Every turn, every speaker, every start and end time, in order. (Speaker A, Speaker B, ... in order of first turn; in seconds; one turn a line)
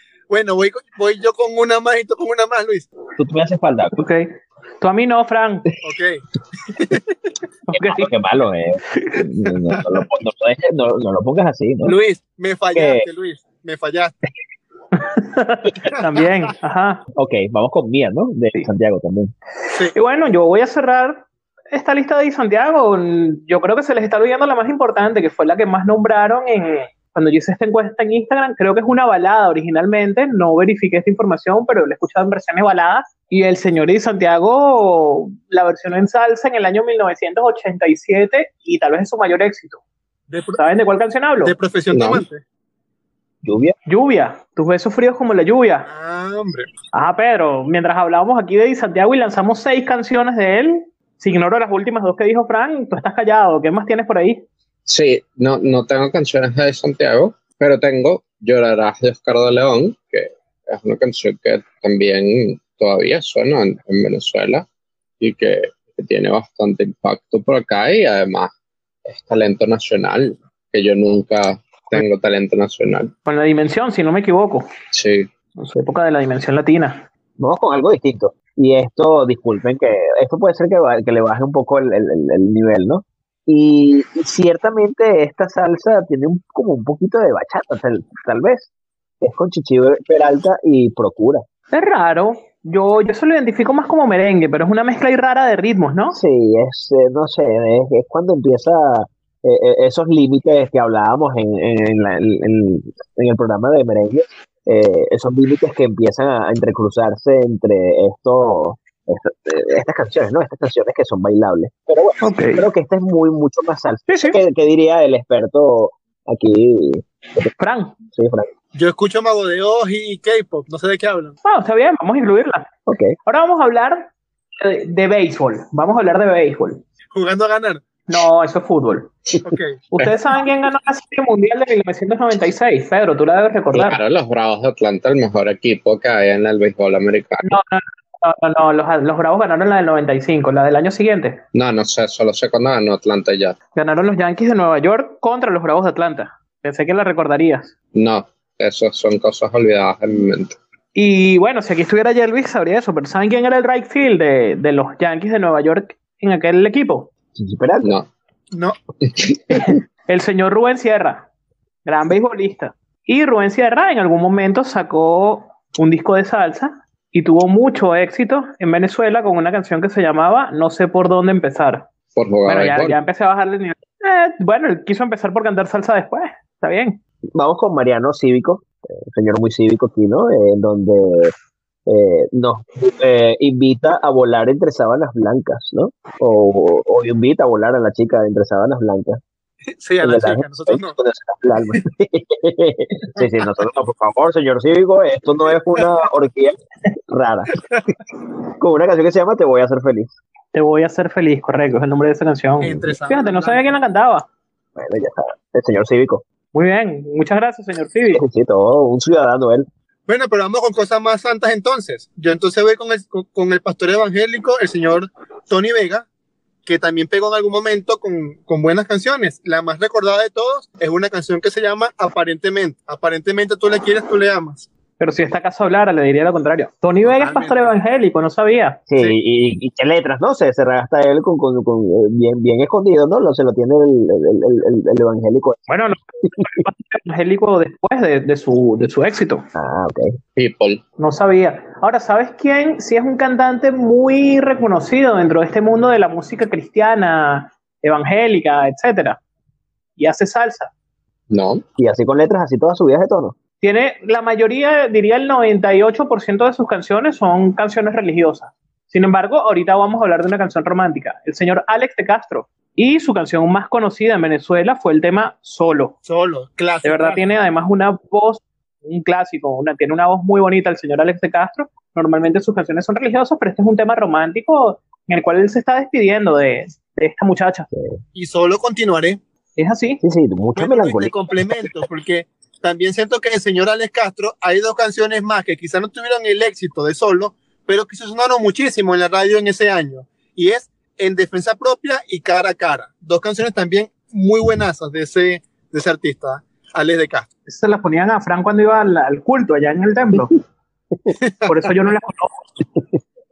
Speaker A: 0.3-2.9
Speaker B: 3.2-4.0
Speaker C: 4.0-5.7
Speaker A: 5.8-6.2
Speaker C: 7.7-8.1
Speaker B: 7.7-11.9
Speaker A: 11.8-14.2
Speaker B: 12.7-13.1
Speaker C: 14.9-17.0
Speaker B: 17.1-19.3
Speaker C: 19.9-39.8
Speaker A: 40.3-40.6
Speaker C: 40.5-41.5
Speaker A: 41.4-42.4
Speaker D: 41.9-42.2
Speaker B: 43.4-43.7
Speaker C: 43.9-45.9
Speaker A: 45.9-46.7
Speaker C: 46.9-54.4
Speaker D: 54.9-64.7
Speaker D: 65.2-68.5
Speaker D: 69.0-73.1
Speaker C: 73.2-74.7
Speaker D: 74.9-75.3
Speaker C: 75.5-77.0
Speaker B: 77.4-88.7
Speaker B: 89.2-91.4
Speaker C: 91.7-96.2
Speaker B: 96.1-117.5
Speaker C: 112.2-112.7
Speaker C: 114.1-114.4
Speaker C: 117.6-118.0
Speaker B: 118.1-118.5
Speaker A: 118.7-121.4
Speaker C: 121.4-122.7
Speaker B: 122.9-123.2
Speaker C: 123.2-124.0
Speaker C: 124.6-126.8
Speaker A: 127.1-127.8
Speaker C: 128.1-129.1
Speaker A: 129.4-129.8
Speaker C: 129.9-134.0
Speaker D: 133.7-137.6
Speaker C: 137.4-141.4
Speaker D: 141.5-143.6
Speaker C: 143.7-147.7
Speaker D: 147.9-150.6
Speaker C: 150.9-157.1
Speaker B: 157.3-157.9
Speaker D: 157.8-158.1
Speaker D: 159.0-159.7
Speaker C: 159.5-161.3
Speaker C: 161.8-171.9
Speaker D: 172.1-173.0
Speaker C: 172.4-177.0
Speaker B: 177.3-181.3
Speaker B: 181.9-189.2
Speaker A: 189.8-191.0
Speaker B: 190.0-196.5
Speaker B: 197.1-197.6
Speaker B: 198.6-200.2
Speaker C: 200.5-204.3
Speaker A: 202.6-203.7
Speaker B: 204.8-206.2
Speaker C: 206.5-208.2
Speaker B: 208.1-209.7
Speaker A: 210.1-216.1
Speaker A: 216.7-224.7
Speaker C: 225.0-228.8
Speaker A: 227.0-227.6
Speaker B: 228.9-235.7
Speaker C: 235.7-239.4
Speaker B: 239.5-240.2
Speaker D: 240.4-240.8
Speaker C: 241.0-249.2
Speaker C: 250.0-250.7
Speaker D: 251.3-251.6
Speaker B: 251.8-253.3
Speaker C: 253.6-265.9
Speaker A: 266.0-267.2
Speaker C: 266.8-277.7
Speaker B: 277.7-278.0
Speaker A: 278.1-279.2
Speaker C: 279.6-280.0
Speaker B: 280.0-281.1
Speaker A: 280.6-297.3
Speaker C: 297.5-300.3
Speaker A: 301.1-301.6
Speaker C: 301.5-302.4
Speaker B: 302.7-303.0